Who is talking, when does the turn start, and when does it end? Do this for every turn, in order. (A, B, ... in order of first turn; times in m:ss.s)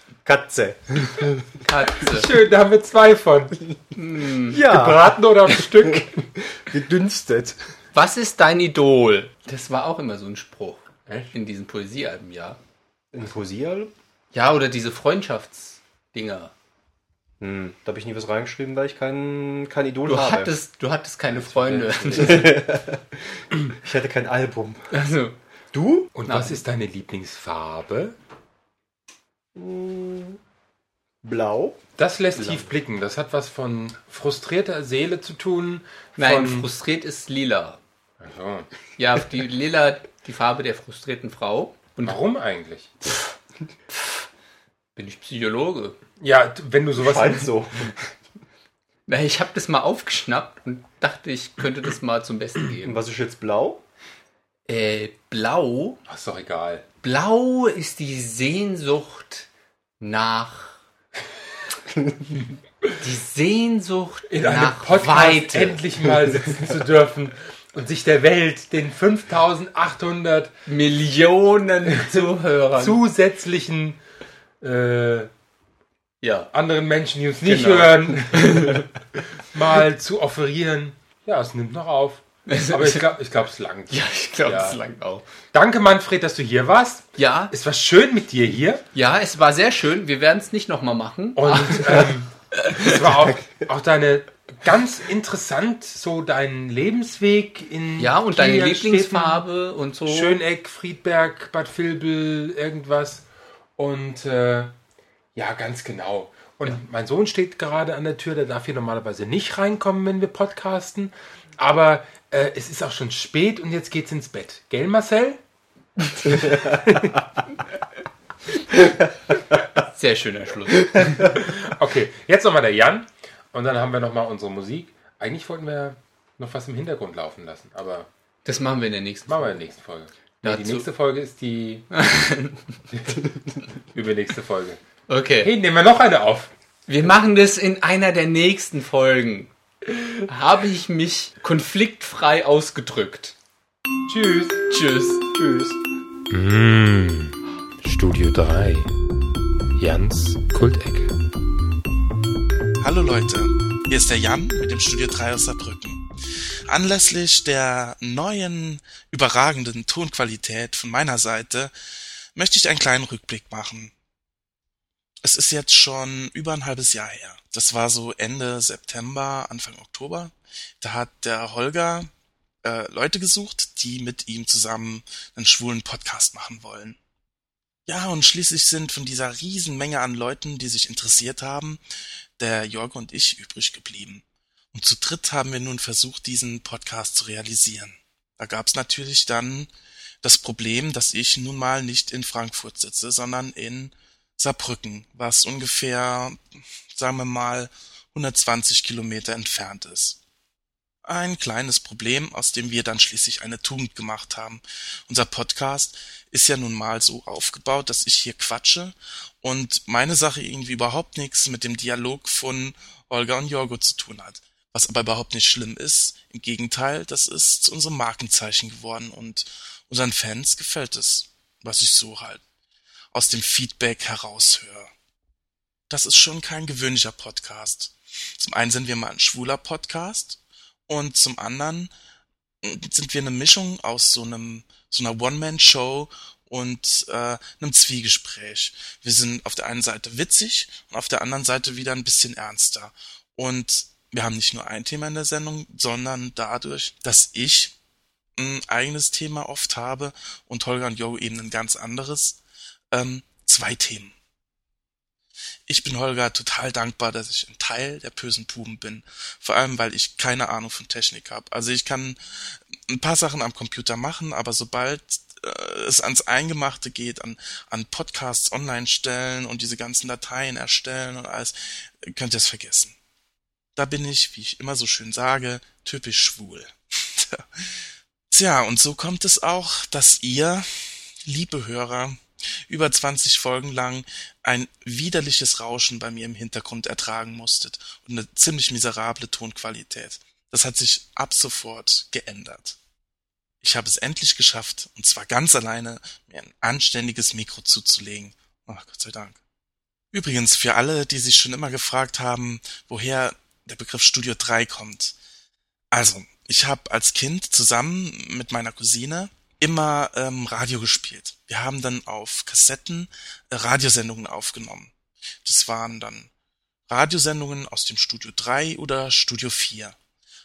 0:00.2-0:01.5 A
0:01.6-0:02.3 B
0:02.0-0:03.6 C
0:03.9-0:04.6 B
0:04.4-0:05.1 A
0:04.6-0:06.2 C
0:06.0-0:07.6 A
0:07.9-0:12.6 B
0:11.1-0:11.3 C
0:13.1-0:13.9 A
0:14.3-0:16.5 B
0:17.4-0:20.6 A
0:20.0-0:22.6 B
0:21.4-0:24.9 A
0:21.6-0:21.8 C
0:24.9-0:25.4 B
0:25.7-0:26.1 A
0:26.1-0:28.1 C
0:26.2-0:26.6 B
0:29.5-0:30.4 A
0:31.2-0:31.8 A
0:32.0-0:36.7 C
0:36.2-0:37.8 B
0:38.2-0:38.7 C
0:39.0-0:42.2 B
0:42.0-0:42.9 C
0:45.0-0:46.0 B
0:46.2-0:47.5 C
0:47.0-0:47.9 A
0:49.1-0:53.0 B
0:52.8-0:53.8 A
0:54.7-0:56.0 B
0:56.1-0:56.8 C
0:57.0-0:59.5 B
1:00.0-1:00.8 B
1:03.0-1:05.8 B
1:04.3-1:10.5 C
1:10.6-1:13.0 B
1:12.0-1:14.0 C
1:14.6-1:15.3 C
1:16.2-1:16.5 B
1:16.5-1:18.8 C
1:17.4-1:18.9 B
1:19.5-1:24.8 C
1:22.4-1:23.1 B
1:23.9-1:25.2 B
1:25.5-1:28.8 C
1:27.2-1:27.5 B
1:28.9-1:32.1 B
1:31.4-1:39.4 C
1:38.0-1:40.4 B
1:40.0-1:43.2 C
1:43.8-1:44.7 C
1:45.3-1:55.4 C
1:56.2-1:57.2 C
1:59.7-2:01.3 B
2:01.3-2:08.1 C
2:08.4-2:09.6 B
2:09.3-2:11.8 C
2:10.4-2:10.9 B
2:11.9-2:12.6 B
2:13.9-2:14.8 C
2:15.1-2:15.5 B
2:15.4-2:16.5 C
2:16.9-2:19.5 B
2:20.2-2:23.3 B
2:24.1-2:24.6 C
2:24.7-2:25.2 B
2:25.3-2:25.8 A
2:26.3-2:28.9 C
2:29.8-2:31.1 C
2:32.8-2:36.0 D
2:36.7-2:41.7 D
2:42.3-2:43.9 D
2:45.2-2:52.1 D
2:52.6-2:57.0 D
2:57.9-3:01.8 D
3:02.4-3:09.7 D
3:10.2-3:16.4 D
3:16.9-3:20.2 D
3:21.0-3:42.4 D
3:43.1-3:44.9 D
3:45.9-3:51.9 D
3:52.6-4:07.7 D
4:08.4-4:12.4 D
4:12.9-4:14.1 D
4:15.7-4:22.2 D
4:22.9-4:31.5 D
4:32.1-4:33.0 D
4:33.8-4:37.4 D
4:38.3-4:40.6 D
4:41.2-4:42.2 D
4:42.7-4:52.8 D
4:53.6-4:59.4 D
5:00.1-5:05.2 D
5:05.9-5:14.9 D
5:15.4-5:16.3 D
5:16.9-5:20.0 D